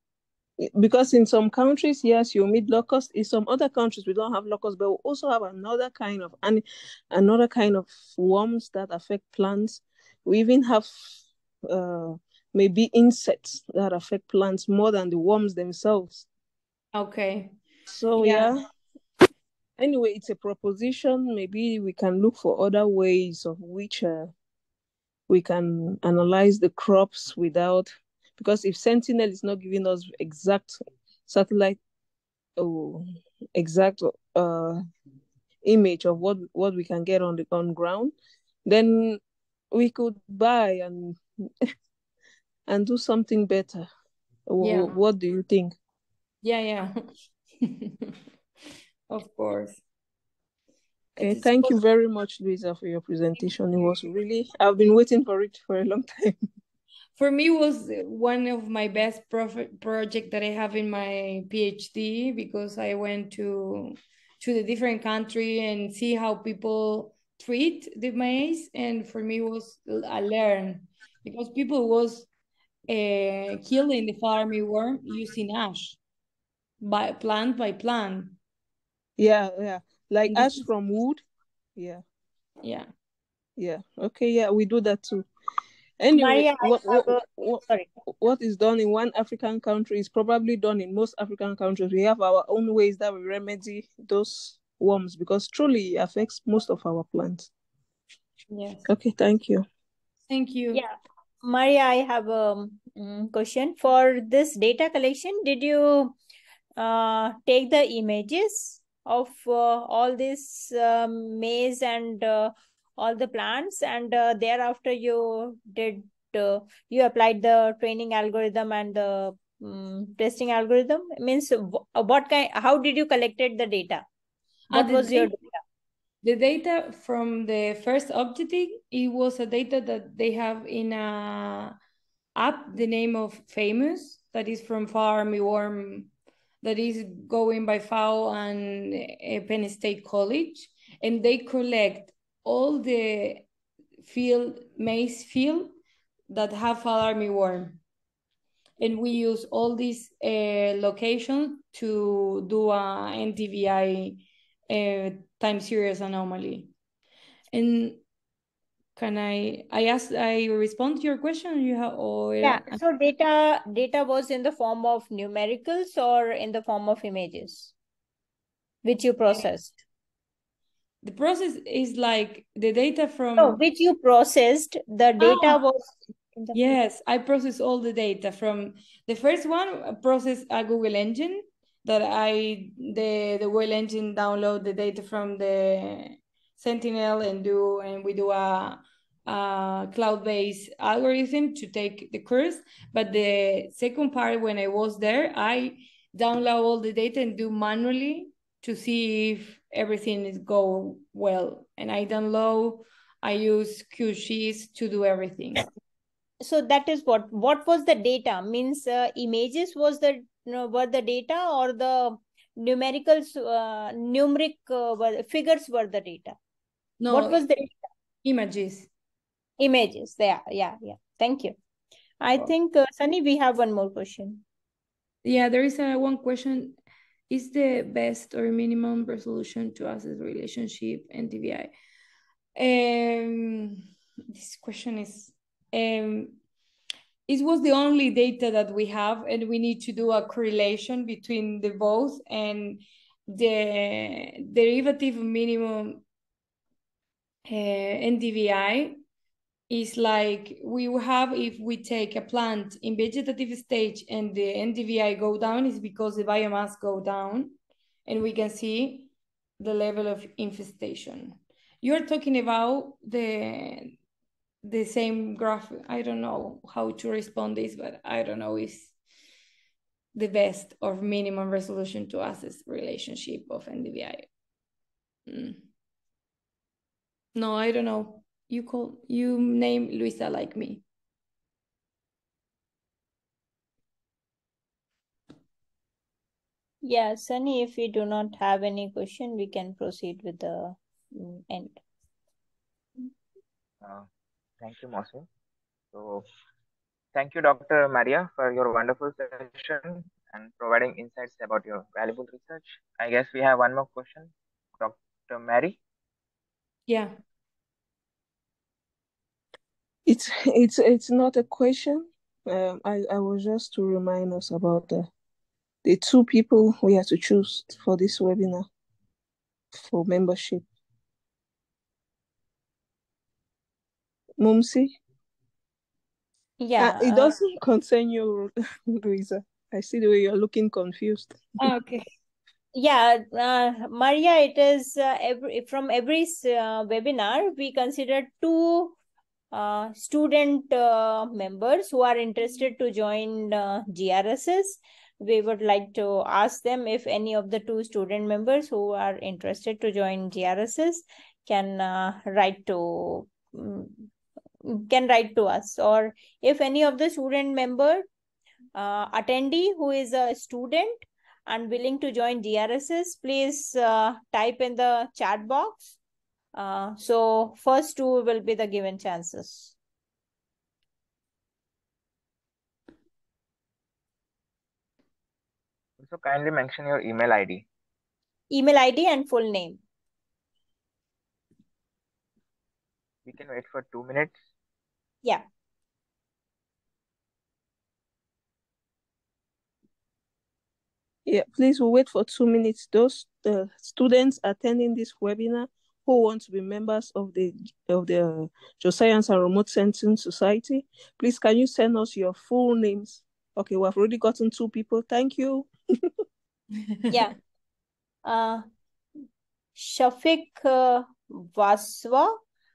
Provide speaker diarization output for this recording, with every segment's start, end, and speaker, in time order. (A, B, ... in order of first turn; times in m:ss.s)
0:00.6-0:11.0 A
0:11.7-0:16.3 A
0:16.9-0:17.5 B
0:17.9-0:18.6 A
0:18.2-0:18.5 B
0:19.8-0:24.3 A
0:25.3-0:31.8 A
0:32.6-0:34.8 A
0:35.6-0:38.1 A
0:38.7-0:39.2 A
0:39.7-0:41.5 A
0:42.7-0:43.9 A
0:44.5-0:45.8 A
0:44.6-0:44.9 B
0:46.4-0:47.0 B
0:47.6-0:48.1 B
0:49.1-0:49.8 B
0:51.2-0:51.8 B
0:51.2-0:56.4 A
0:57.2-1:12.3 B
1:12.9-1:16.0 B
1:16.8-1:18.4 B
1:19.2-1:21.2 A
1:20.3-1:20.6 B
1:21.8-1:22.0 A
1:22.6-1:22.9 B
1:23.6-1:25.3 A
1:26.0-1:37.5 A
1:26.1-1:27.9 C
1:38.5-1:38.9 B
1:38.9-1:39.7 A
1:40.3-1:40.8 B
1:40.7-1:46.2 C
1:46.8-2:04.0 C
2:04.7-2:05.3 B
2:04.7-2:05.5 C
2:06.2-2:11.7 B
2:12.4-2:16.1 B
2:16.6-2:23.4 B
2:24.0-2:25.8 B
2:26.3-2:27.8 B
2:28.8-2:36.7 B
2:37.5-2:38.0 B
2:39.0-2:42.8 B
2:42.4-2:47.7 C
2:48.8-2:49.8 C
2:51.0-2:53.6 B
2:53.4-2:56.7 C
2:55.2-2:55.6 B
2:56.5-3:25.7 B
3:26.4-3:36.4 C
3:37.0-3:37.7 B
3:37.1-3:37.7 C
3:38.2-3:38.9 B
3:39.6-3:41.6 C
3:42.2-3:44.4 C
3:45.2-3:46.8 B
3:47.3-3:51.7 B
3:52.6-3:53.8 B
3:54.3-3:56.4 B
3:57.3-4:06.0 B
4:07.5-4:09.0 B
4:09.7-4:24.0 B
4:24.6-4:28.9 B
4:30.2-4:34.3 B
4:35.3-4:35.6 B
4:37.4-4:40.8 B
4:46.8-4:51.8 C
4:53.8-4:54.1 D
4:54.6-4:55.3 D
4:55.9-4:56.3 D
4:57.2-5:05.8 D
5:06.9-5:07.1 B
5:10.1-5:15.1 A
5:15.8-5:18.7 A
5:19.8-5:20.6 A
5:24.4-5:25.0 A
5:26.6-5:27.4 C
5:26.8-5:31.5 A
5:31.6-5:32.0 B
5:32.8-5:39.0 C
5:39.5-5:54.1 C
5:54.7-5:58.1 C
5:58.8-6:06.0 C
6:06.6-6:09.7 C
6:16.0-6:17.7 D
6:18.5-6:19.8 C
6:23.3-6:24.4 D
6:31.3-6:46.0 A
6:47.1-6:47.4 C
6:48.2-6:48.6 C
6:49.8-6:52.4 C